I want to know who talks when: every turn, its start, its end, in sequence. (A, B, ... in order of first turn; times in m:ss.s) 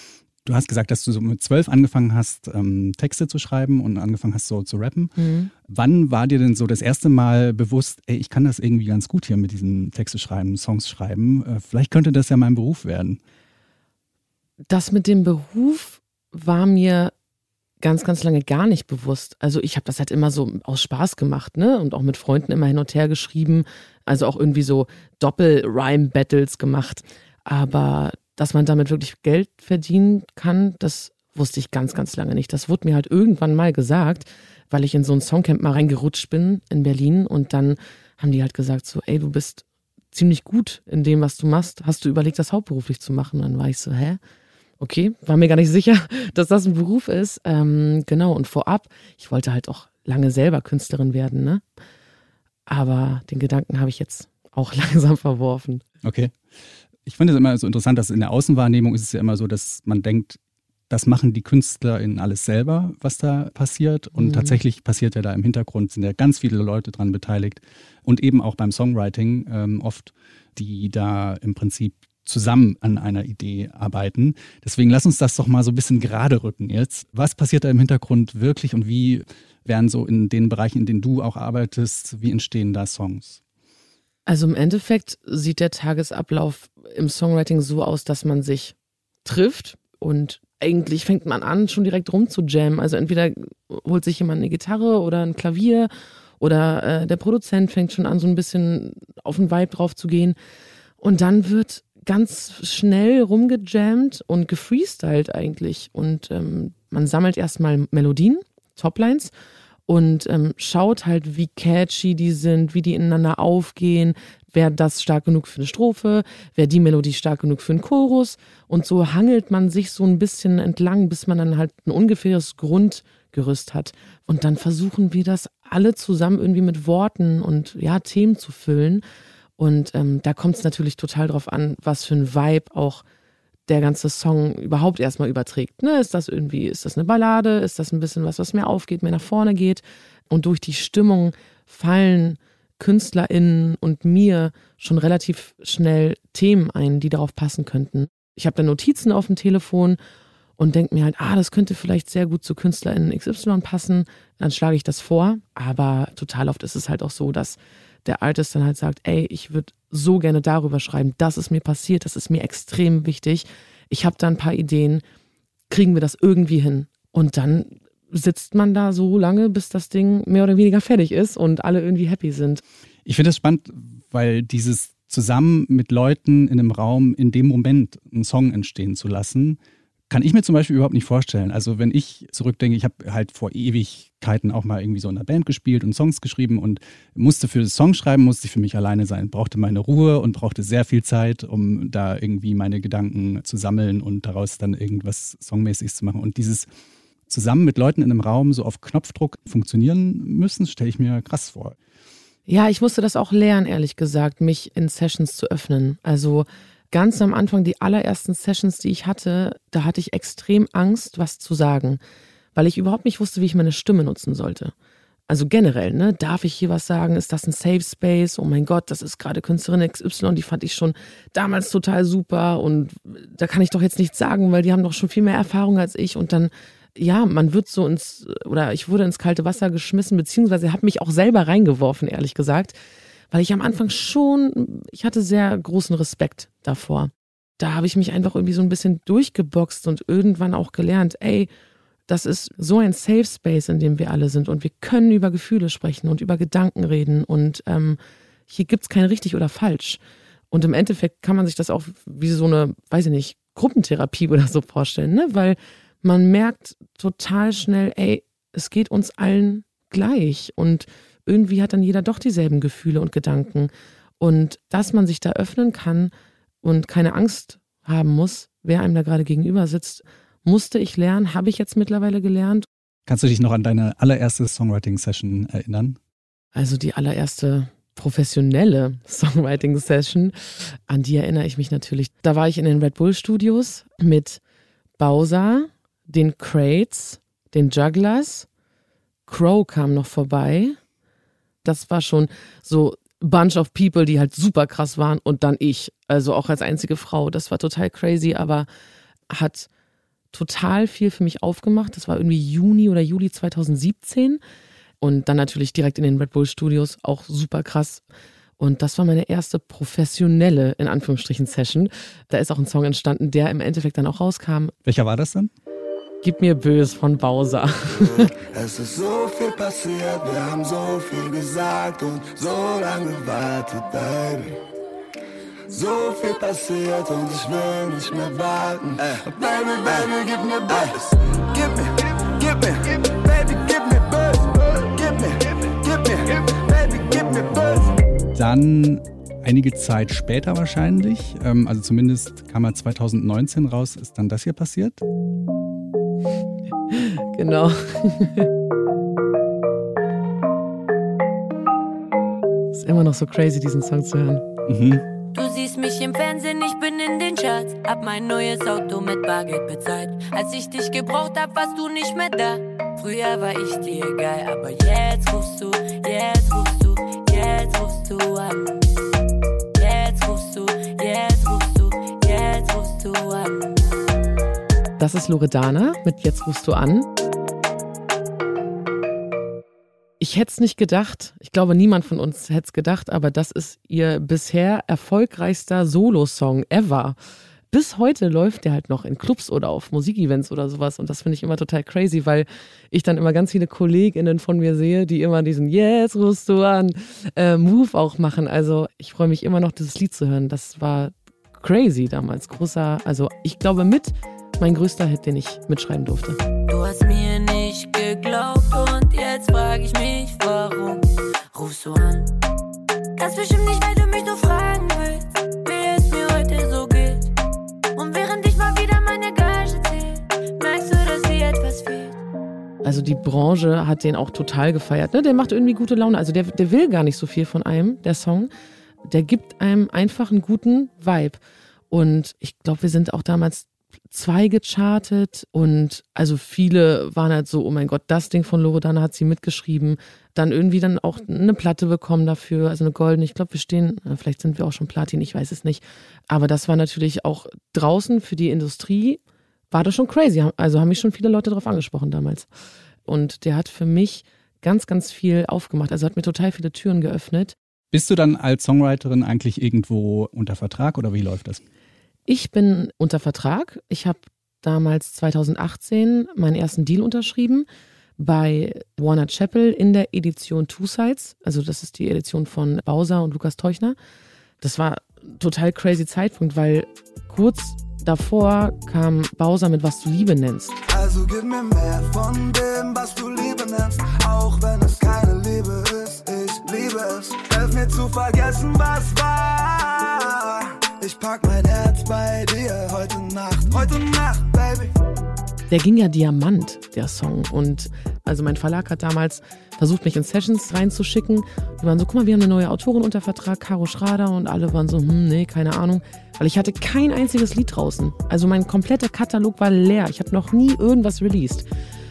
0:00.4-0:05.1 A
0:05.2-0:05.5 B
0:05.6-0:13.2 A
0:14.7-0:17.1 B
0:17.8-0:44.2 B
0:44.8-0:51.6 B
0:52.7-0:55.8 B
0:56.0-0:56.3 A
0:57.0-1:00.4 A
1:00.9-1:23.4 A
1:04.2-1:04.6 B
1:24.3-1:40.4 B
1:41.0-1:49.3 B
1:49.9-2:09.0 B
2:09.6-2:13.0 B
2:13.7-2:30.0 B
2:30.6-2:45.0 B
2:45.7-2:52.6 B
2:53.0-3:16.7 A
3:17.3-3:21.8 A
3:22.5-3:32.0 B
3:32.5-3:34.7 B
3:35.3-3:52.8 B
3:53.3-4:01.5 B
4:02.1-4:08.0 B
4:08.5-4:10.0 B
4:10.5-4:26.1 B
4:26.6-4:32.7 B
4:33.0-4:36.0 A
4:36.5-4:44.4 B
4:45.0-4:48.5 B
4:49.3-4:50.8 B
4:51.6-4:58.7 B
4:59.3-4:59.7 B
5:00.3-5:04.4 B
5:05.0-5:08.0 B
5:08.6-5:14.7 B
5:14.8-5:15.5 A
5:16.2-5:18.3 B
5:18.5-5:24.6 C
5:25.7-5:37.9 C
5:38.3-5:45.0 A
5:46.9-5:48.5 B
5:52.7-5:54.4 B
5:54.7-5:55.0 A
5:55.3-6:08.8 D
6:09.8-6:13.8 D
6:15.0-6:17.1 B
6:20.2-6:27.2 B
6:27.7-6:46.4 B
6:46.7-6:52.3 D
6:53.2-6:57.3 D
6:57.9-7:02.2 D
7:02.8-7:08.5 B
7:09.0-7:29.2 B
7:29.7-7:32.5 B
7:33.1-7:37.5 B
7:37.9-7:41.6 A
7:42.3-7:47.6 B
7:48.2-7:54.0 B
7:54.6-8:00.8 B
8:00.8-8:14.9 C
8:15.7-8:31.7 B